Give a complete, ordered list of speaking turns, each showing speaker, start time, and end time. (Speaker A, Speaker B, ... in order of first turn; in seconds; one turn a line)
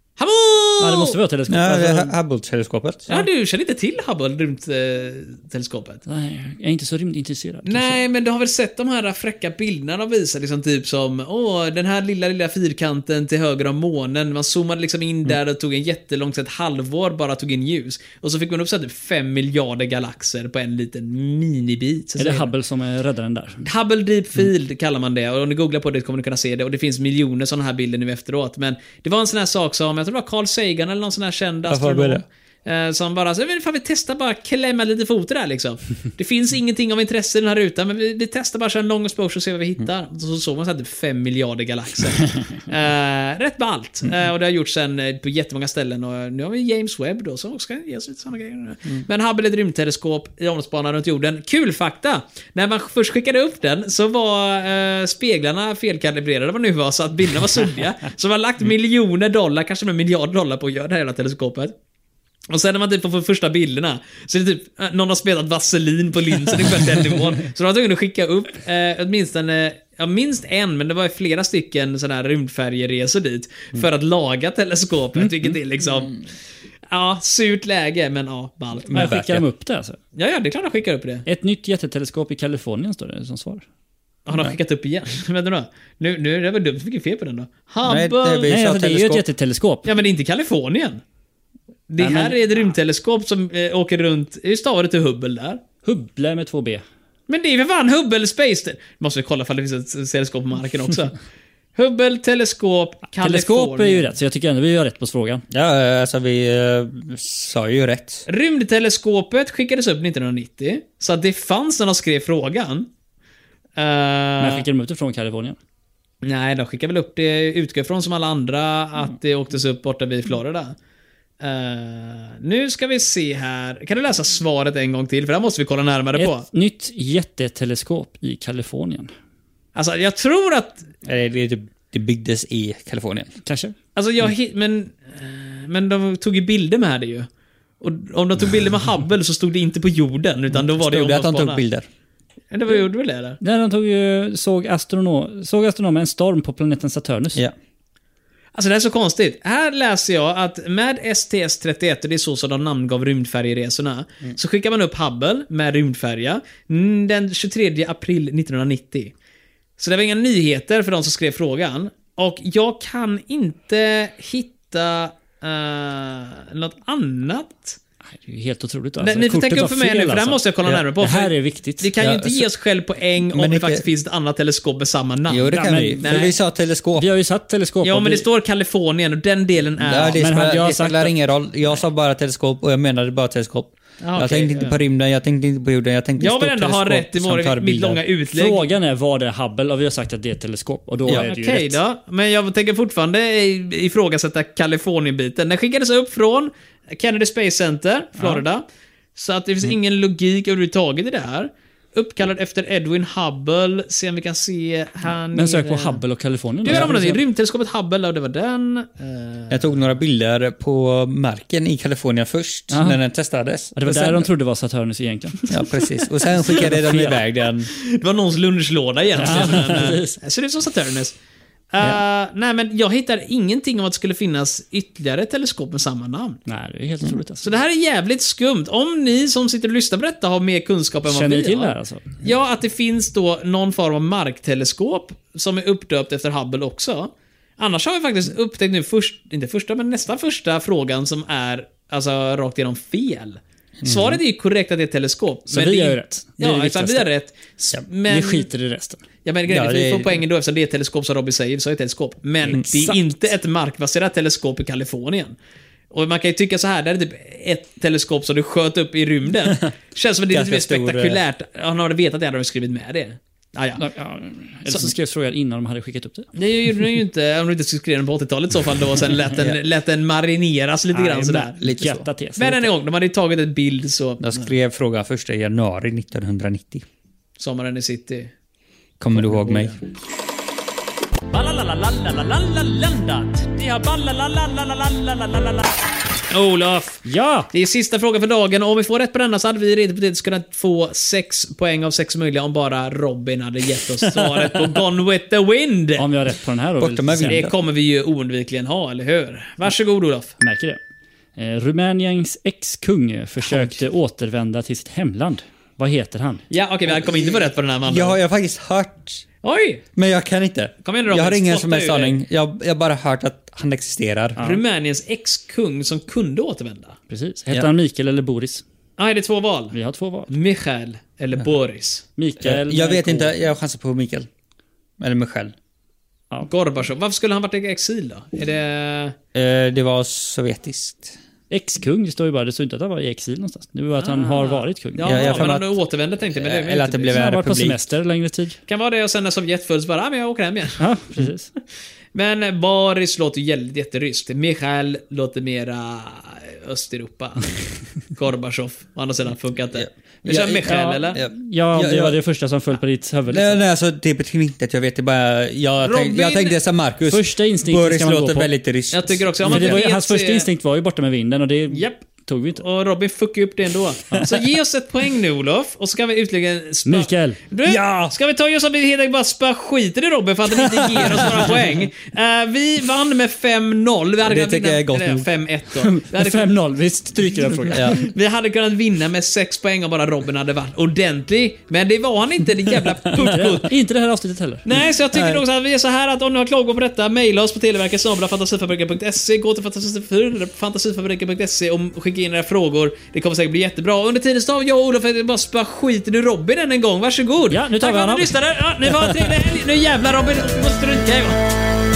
Speaker A: 0.2-1.2
Speaker B: 0.8-2.1
Speaker C: 1.5-3.2
Speaker A: 3.1-6.0
Speaker B: 6.1-8.0
Speaker A: 7.7-22.5
Speaker B: 22.2-23.6
Speaker A: 23.6-61.7
Speaker C: 31.7-32.2
Speaker A: 62.5-76.2
Speaker A: 76.9-79.2
Speaker C: 78.9-79.5
Speaker B: 78.9-80.0
Speaker A: 80.2-81.2
Speaker B: 81.3-83.6
Speaker A: 84.3-88.5
Speaker C: 87.8-89.2
Speaker B: 88.5-89.9
Speaker A: 89.9-91.0
Speaker A: 91.9-95.6
Speaker B: 92.0-92.4
Speaker B: 95.8-96.8
Speaker A: 97.3-101.2
Speaker A: 101.8-104.1
Speaker B: 103.2-105.4
Speaker C: 105.5-108.2
Speaker A: 108.3-112.9
Speaker A: 113.8-114.6
Speaker B: 114.4-115.6
Speaker A: 116.2-120.8
Speaker A: 121.4-126.4
Speaker B: 126.2-129.1
Speaker A: 129.8-130.9
Speaker C: 131.0-133.3
Speaker B: 133.5-133.8
Speaker A: 134.0-137.3
Speaker A: 137.8-141.6
Speaker C: 140.5-141.9
Speaker A: 142.5-143.4
Speaker B: 143.4-147.4
Speaker A: 148.6-159.1
Speaker A: 159.8-167.8
Speaker B: 168.2-170.4
Speaker A: 169.0-176.3
Speaker B: 171.0-171.9
Speaker C: 172.0-172.5
Speaker C: 173.3-173.9
Speaker C: 175.3-177.1
Speaker B: 175.5-176.4
Speaker B: 176.9-178.3
Speaker A: 177.8-180.2
Speaker C: 179.8-188.0
Speaker B: 180.2-181.2
Speaker A: 184.0-184.8
Speaker A: 186.2-188.7
Speaker B: 188.3-191.8
Speaker A: 191.1-198.6
Speaker B: 198.2-198.4
Speaker A: 199.2-206.0
Speaker B: 205.3-207.2
Speaker A: 206.7-209.7
Speaker C: 209.5-214.3
Speaker B: 212.7-213.0
Speaker B: 213.8-215.5
Speaker C: 215.5-217.7
Speaker B: 216.5-217.2
Speaker A: 217.7-221.2
Speaker B: 219.2-220.2
Speaker A: 221.7-226.4
Speaker B: 226.5-227.6
Speaker A: 227.4-248.5
Speaker B: 231.1-232.1
Speaker C: 243.8-244.2
Speaker B: 245.5-247.1
Speaker B: 248.1-249.0
Speaker A: 249.2-255.4
Speaker C: 249.5-250.2
Speaker B: 252.5-253.0
Speaker A: 255.9-263.8
Speaker C: 260.3-261.2
Speaker B: 263.8-266.3
Speaker A: 266.4-271.5
Speaker B: 270.9-272.7
Speaker C: 271.6-272.1
Speaker A: 272.4-274.6
Speaker C: 274.2-276.8
Speaker A: 277.4-278.3
Speaker C: 279.0-279.8
Speaker A: 279.1-279.8
Speaker A: 281.3-285.7
Speaker A: 286.3-296.1
Speaker B: 287.1-287.5
Speaker B: 296.0-297.4
Speaker C: 296.8-297.5
Speaker A: 297.3-300.4
Speaker B: 300.4-300.8
Speaker B: 301.4-306.4
Speaker A: 306.5-308.2
Speaker C: 306.9-309.2
Speaker A: 309.4-309.8
Speaker C: 310.0-314.4
Speaker A: 310.8-312.2
Speaker A: 314.4-317.0
Speaker B: 317.1-318.6
Speaker A: 319.0-319.8
Speaker B: 319.7-320.3
Speaker A: 320.3-322.1
Speaker B: 322.2-323.3
Speaker C: 322.4-324.3
Speaker C: 325.0-325.5
Speaker A: 326.5-329.2
Speaker C: 329.3-331.2
Speaker B: 331.5-335.5
Speaker A: 334.0-337.2
Speaker C: 335.0-335.8
Speaker C: 336.4-337.8
Speaker B: 337.1-338.6
Speaker A: 338.7-340.9
Speaker B: 340.8-341.5
Speaker A: 342.1-347.5
Speaker A: 348.1-351.2
Speaker C: 349.7-352.2
Speaker B: 350.7-353.6
Speaker C: 353.3-359.8
Speaker A: 355.8-356.6
Speaker B: 357.1-358.5
Speaker A: 358.9-360.5
Speaker B: 359.4-362.6
Speaker A: 361.7-362.0
Speaker A: 362.6-376.5
Speaker B: 364.1-364.4
Speaker B: 366.9-367.4
Speaker C: 367.7-368.1
Speaker C: 370.6-371.5
Speaker C: 374.2-375.3
Speaker B: 375.8-378.0
Speaker C: 377.7-378.0
Speaker A: 377.8-383.7
Speaker B: 383.1-384.7
Speaker A: 384.6-401.4
Speaker C: 385.1-385.4
Speaker B: 397.5-399.4